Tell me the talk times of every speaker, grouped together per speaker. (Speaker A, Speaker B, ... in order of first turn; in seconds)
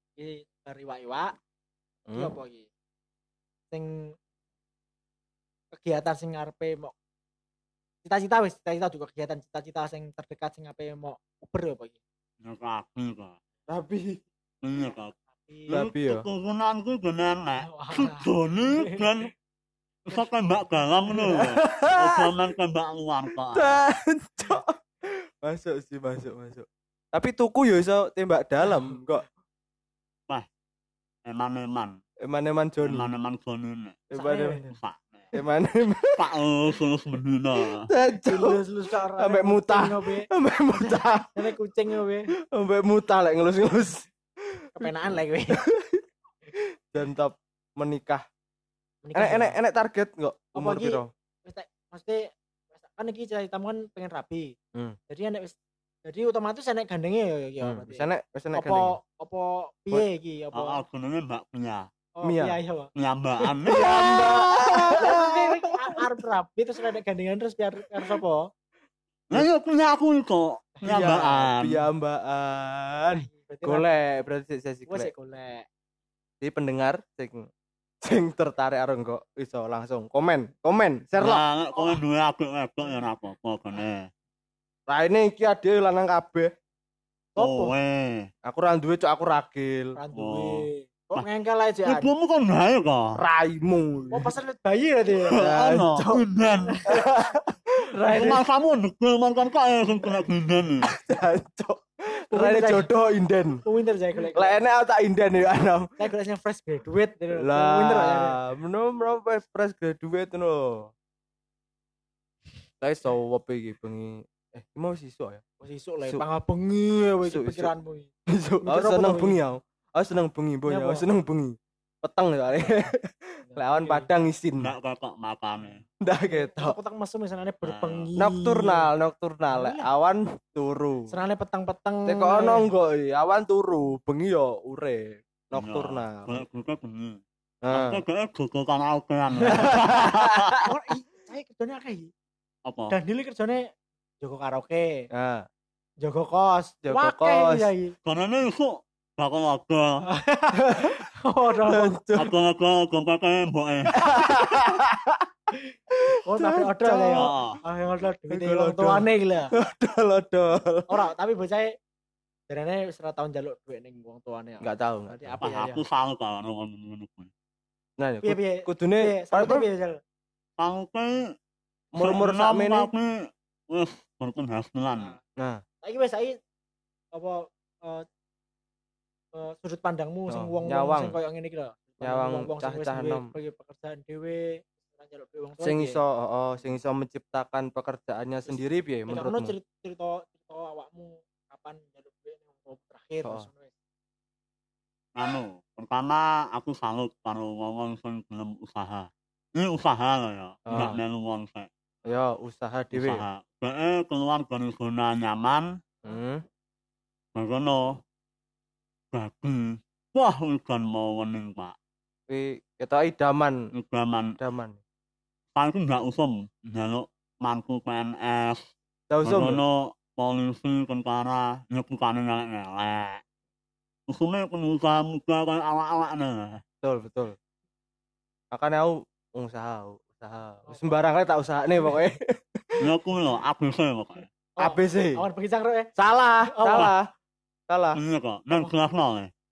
Speaker A: 0.2-1.4, 2.1-2.7, 3.7-4.2, 5.7-6.9, 8.0-12.0, 15.3-15.8, 17.6-19.0, 34.2-34.6, 38.3-42.3, 44.8-45.6, 49.0-49.6, 50.5-54.5, 55.1-60.8, 62.2-62.9, 65.0-68.5, 73.1-73.9, 74.9-75.7, 87.4-87.8, 90.0-92.1, 94.1-95.5, 96.7-97.1, 102.3-102.9, 103.7-104.6, 106.0-108.4, 115.6-118.1, 118.6-119.4, 120.7-121.1, 123.5-124.1, 126.2-128.9, 129.5-129.9, 131.1-132.7, 139.4-139.7, 140.6-142.1, 142.9-143.6, 144.2-145.1, 146.0-147.9, 150.1-152.0, 156.2-159.6, 160.9-161.7, 162.5-165.8, 168.2-170.0, 175.8-176.4, 177.1-178.1, 179.3-186.0, 189.1-193.7, 234.6-235.9, 236.4-236.9
Speaker B: 2.1-2.4, 13.7-14.2, 15.7-16.3, 21.1-22.3, 23.6-29.3, 32.2-33.1, 34.1-34.7, 35.3-36.2, 37.9-38.6, 39.2-41.5, 42.5-44.9, 45.5-46.0, 46.9-48.2, 49.1-51.1, 57.6-59.0, 62.2-62.6, 63.7-66.0, 70.8-75.1, 76.4-77.5, 78.0-81.4, 84.9-86.5, 88.5-90.0, 93.2-94.3, 95.3-96.2, 96.9-98.4, 100.9-103.6, 104.3-105.9, 107.4-110.9, 112.8-115.4, 117.3-117.7, 118.3-124.7, 126.0-126.8, 128.2-131.1, 132.1-136.4, 137.6-138.0, 139.5-140.7, 145.1-145.5, 146.8-147.7, 151.7-152.3, 154.0-155.3, 156.1-157.3, 158.3-160.9, 164.6-165.4, 168.0-169.7, 171.9-172.9, 175.4-175.6, 180.3-181.2, 182.0-183.3, 185.6-189.6, 200.7-201.0, 202.1-203.2, 206.1-206.4, 212.3-213.6, 214.4-214.8, 219.1-219.6, 226.8-227.4, 228.5-232.8, 234.6-235.2, 236.0-237.1, 237.7-238.0
Speaker C: 12.4-13.4, 14.6-15.2, 15.7-19.3, 20.1-23.8, 31.2-32.0, 32.9-34.1, 34.7-35.3, 36.1-37.9, 60.5-61.9, 63.0-65.0, 69.3-71.8, 81.2-84.1, 87.4-88.3, 90.2-90.6, 91.9-93.2, 95.4-96.9, 98.1-100.9, 124.6-125.8, 127.6-128.1, 135.5-140.6, 142.7-143.0, 148.1-150.0, 152.2-154.0, 157.1-157.6, 165.4-167.3, 170.6-171.2, 172.0-175.1, 195.2-201.7, 202.9-205.7, 207.3-208.0, 209.1-211.8, 213.7-214.4, 215.6-218.7, 219.2-223.2, 224.1-226.6, 232.8-234.3, 238.0-239.3